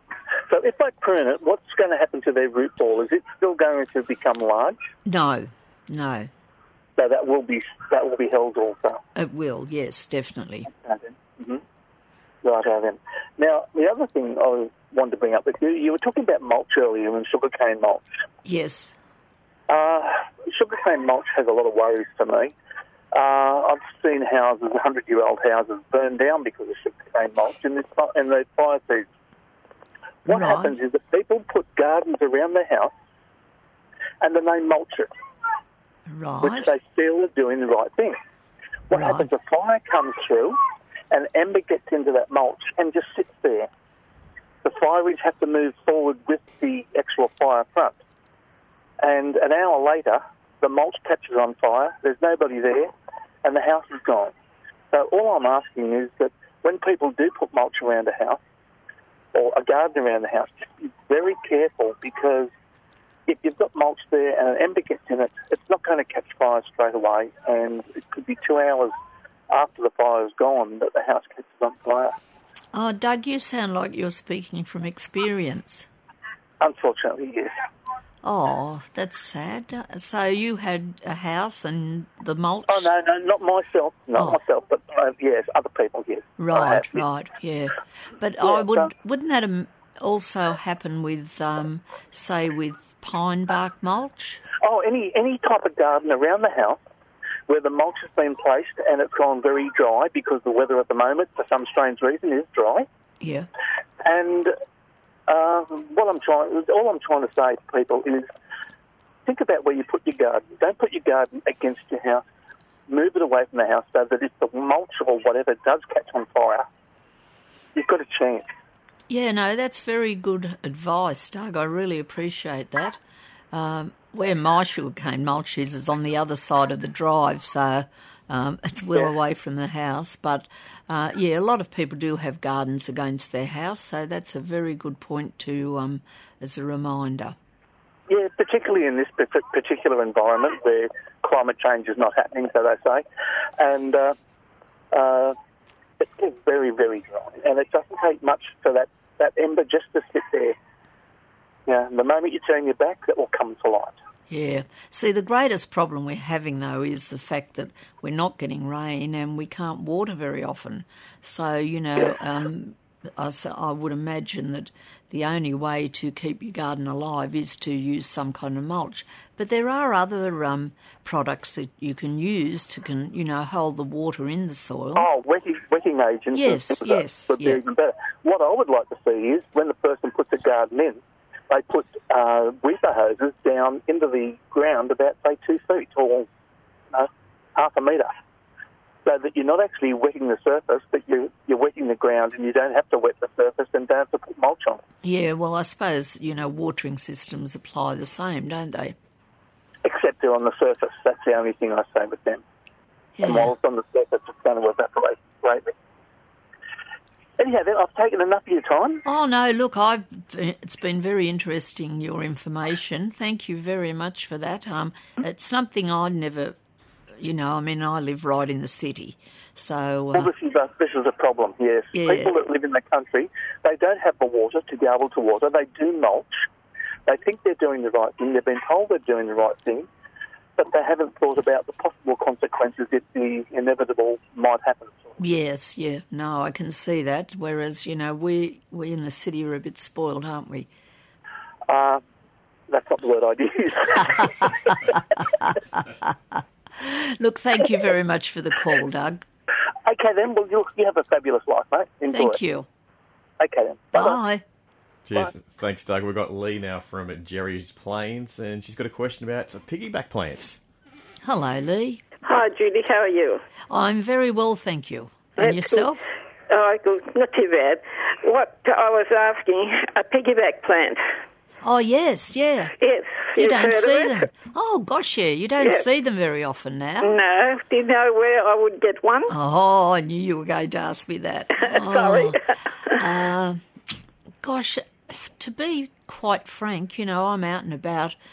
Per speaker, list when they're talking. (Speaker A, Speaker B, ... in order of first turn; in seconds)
Speaker A: 0.5-4.8, 7.0-9.0, 10.7-11.6, 12.4-18.1, 19.7-22.5, 23.1-29.1, 30.2-32.9, 34.2-35.1, 36.4-38.2, 38.9-40.6, 41.1-43.7, 44.6-48.0, 49.0-52.9, 53.4-54.3, 54.9-58.4, 59.3-62.5, 63.3-68.9, 69.5-72.1, 76.6-77.5, 82.7-87.0, 88.4-88.9, 94.6-96.8, 97.5-102.9, 104.0-104.5, 105.3-108.3, 109.2-112.2, 112.9-116.7, 117.7-118.5, 138.1-143.0, 143.6-144.2, 144.9-145.3, 146.0-150.6, 151.7-154.0, 174.9-186.3, 186.9-188.1, 189.0-194.8, 199.8-202.4, 203.2-205.7, 207.4-209.0, 220.1-226.5, 227.1-229.9, 230.6-235.2, 241.7-242.0, 242.7-244.9, 249.8-252.4, 253.4-254.2
Speaker B: 5.0-6.3, 9.2-10.7, 18.4-18.9, 30.3-30.7, 36.1-36.7, 38.9-39.3, 72.7-75.9, 78.2-82.9, 86.4-94.4, 103.2-103.5, 119.1-123.0, 123.5-137.3, 154.3-175.1, 176.3-177.6, 195.0-198.9, 203.2-203.5, 209.0-216.6, 217.2-220.3, 221.9-222.3, 235.2-240.7, 245.4-249.2, 252.1-252.7, 253.9-254.4, 261.2-262.0, 263.7-266.0, 271.6-272.7, 273.3-277.2, 279.3-282.4, 283.0-283.6, 284.4-288.1
Speaker C: 255.0-260.6
Speaker D: 262.2-263.4, 265.4-271.0, 272.8-274.3, 275.6-275.9, 277.0-279.3, 281.6-282.4